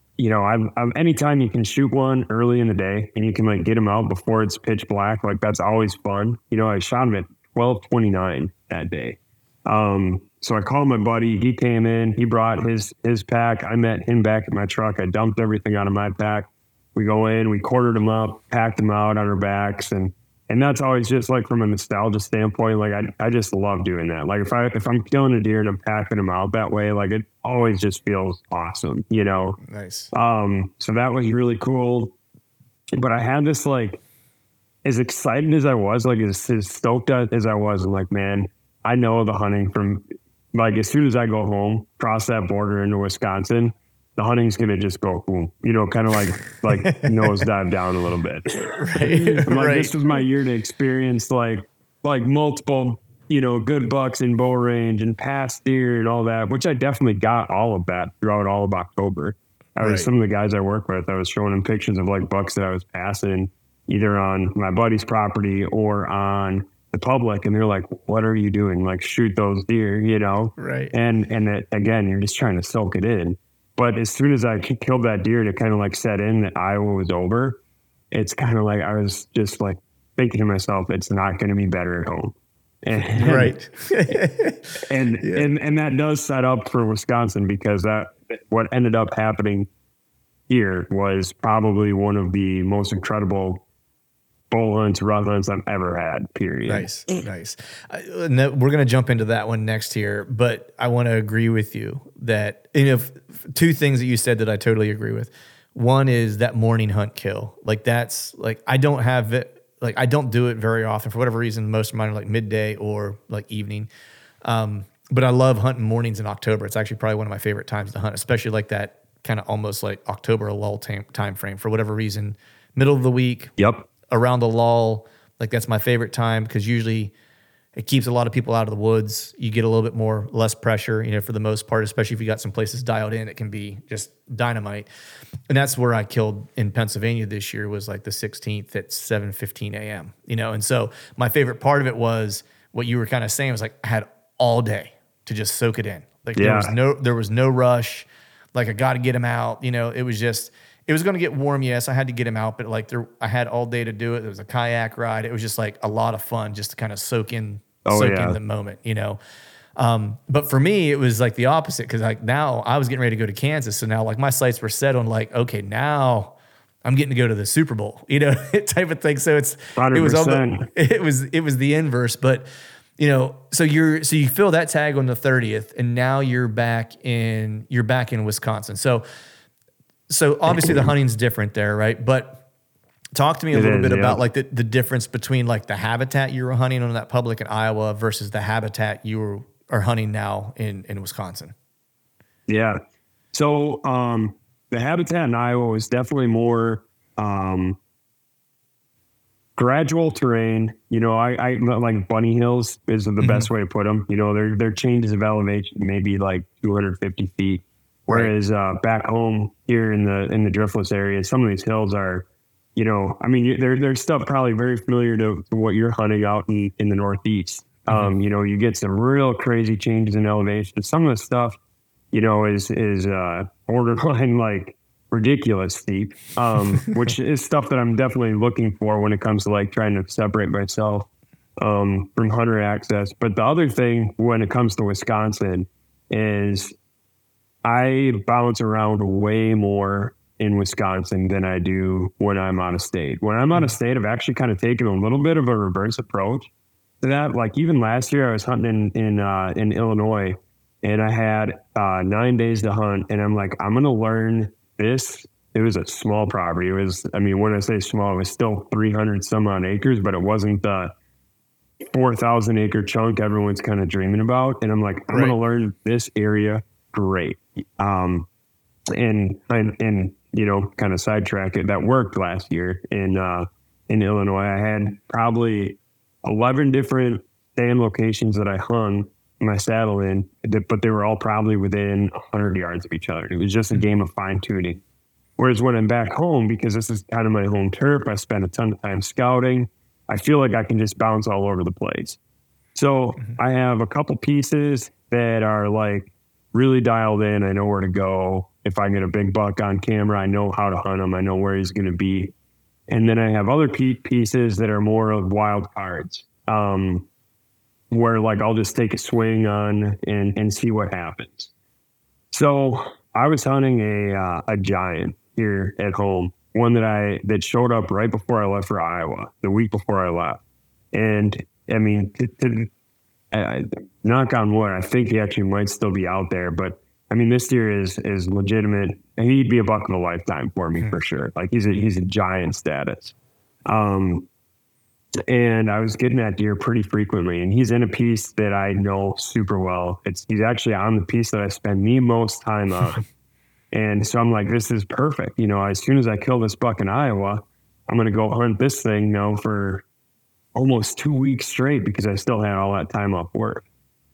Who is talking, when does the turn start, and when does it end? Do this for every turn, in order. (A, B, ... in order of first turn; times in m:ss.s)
0:00.2-0:29.6 A
0:29.7-0:30.1 B
0:30.1-0:32.1 A
0:33.0-0:34.0 A
0:34.8-0:40.0 A
0:40.5-1:17.6 A
0:46.7-0:47.4 B
0:48.8-0:50.0 B
0:59.8-1:00.1 B
1:10.6-1:10.9 B
1:18.1-1:23.6 A
1:23.2-1:25.5 B
1:24.8-1:29.7 A
1:30.5-1:33.6 A
1:34.5-1:36.9 A
1:36.7-1:53.9 B
1:54.4-2:03.5 B
2:03.6-2:03.9 A
2:04.1-2:07.1 B
2:07.8-2:14.9 B
2:15.5-2:39.2 B
2:26.4-2:26.7 A
2:37.9-2:38.4 A
2:39.8-2:52.5 B
2:49.8-2:50.7 A
2:53.0-2:59.0 B
3:00.1-3:02.4 B
3:03.2-3:11.5 B
3:03.5-3:04.2 A
3:12.5-3:12.8 A
3:13.3-3:17.8 A
3:19.6-3:32.2 A
3:23.2-3:23.5 B
3:28.1-3:28.3 B
3:32.8-3:41.6 A
3:37.9-3:38.2 B
3:42.1-3:56.7 A
3:57.6-4:06.5 A
4:07.0-4:20.9 A
4:21.9-4:28.3 A
4:25.1-4:25.4 B
4:29.0-4:44.8 A
4:45.4-4:52.2 A
4:52.8-5:02.3 A
5:02.9-5:07.1 A
5:07.9-5:11.5 A
5:12.3-5:20.4 A
5:20.9-5:22.7 A
5:23.3-5:33.1 A
5:33.7-5:34.3 A
5:35.3-5:43.0 A
5:43.7-5:49.8 A
5:50.6-5:53.6 A